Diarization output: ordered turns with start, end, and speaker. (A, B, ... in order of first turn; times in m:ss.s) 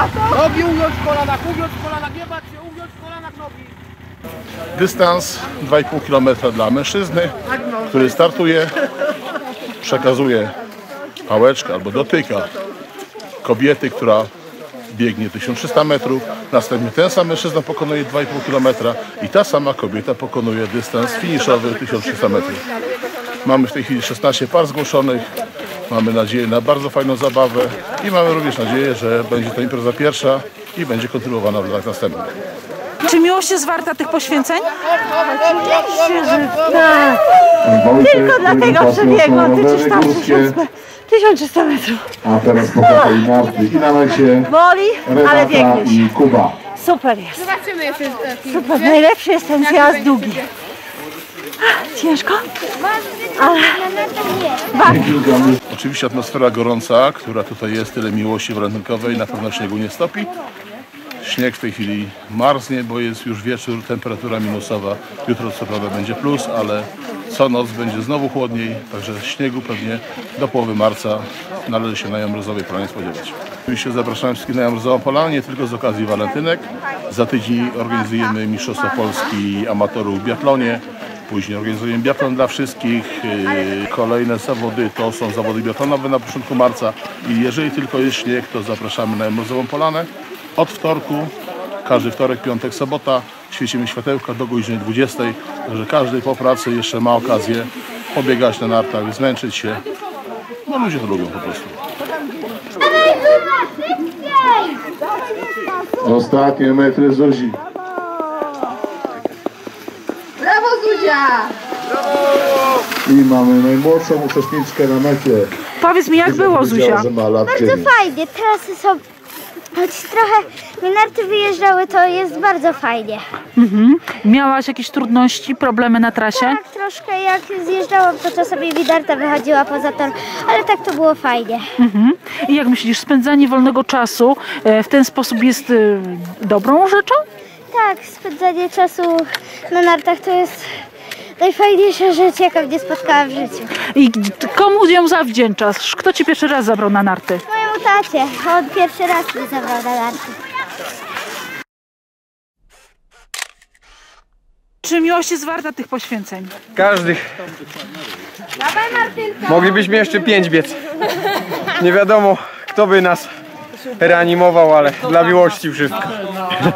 0:04.7-0:08.7 A
0:09.8-0:10.5 A
0:11.3-0:12.5 A
0:13.4-0:14.3 A
0:14.9-0:22.6 A
0:23.4-0:25.2 A
0:25.9-0:32.3 A
0:33.0-0:34.7 B
0:35.4-0:37.2 C
0:37.6-0:40.6 D
0:37.9-0:42.1 C
0:42.2-0:44.5 D
0:42.8-0:43.2 C
0:44.4-0:46.0 C
0:45.0-0:46.6 D
0:46.8-0:47.5 C
0:48.1-0:50.5 C
0:51.6-0:52.4 C
0:53.4-0:53.8 C
0:54.2-0:54.5 E
0:54.7-0:55.2 C
0:54.8-0:55.6 D
0:55.7-1:00.3 A
1:01.2-1:31.3 A
1:31.8-1:39.8 A
1:40.7-1:41.8 A
1:46.0-1:47.6 D
1:53.0-1:55.5 D
1:55.8-1:57.0 B
1:56.2-1:57.9 D
1:57.5-1:58.9 E
1:59.8-2:03.2 E
2:03.6-2:06.5 B
2:06.4-2:11.6 E
2:11.8-2:17.2 B
2:17.7-2:20.6 E
2:21.4-2:23.6 E
2:23.9-2:27.4 B
2:27.5-2:30.3 E
2:34.8-2:36.5 B
2:36.7-2:37.2 F
2:39.4-2:40.8 F
2:41.8-2:43.3 F
2:44.0-2:46.1 F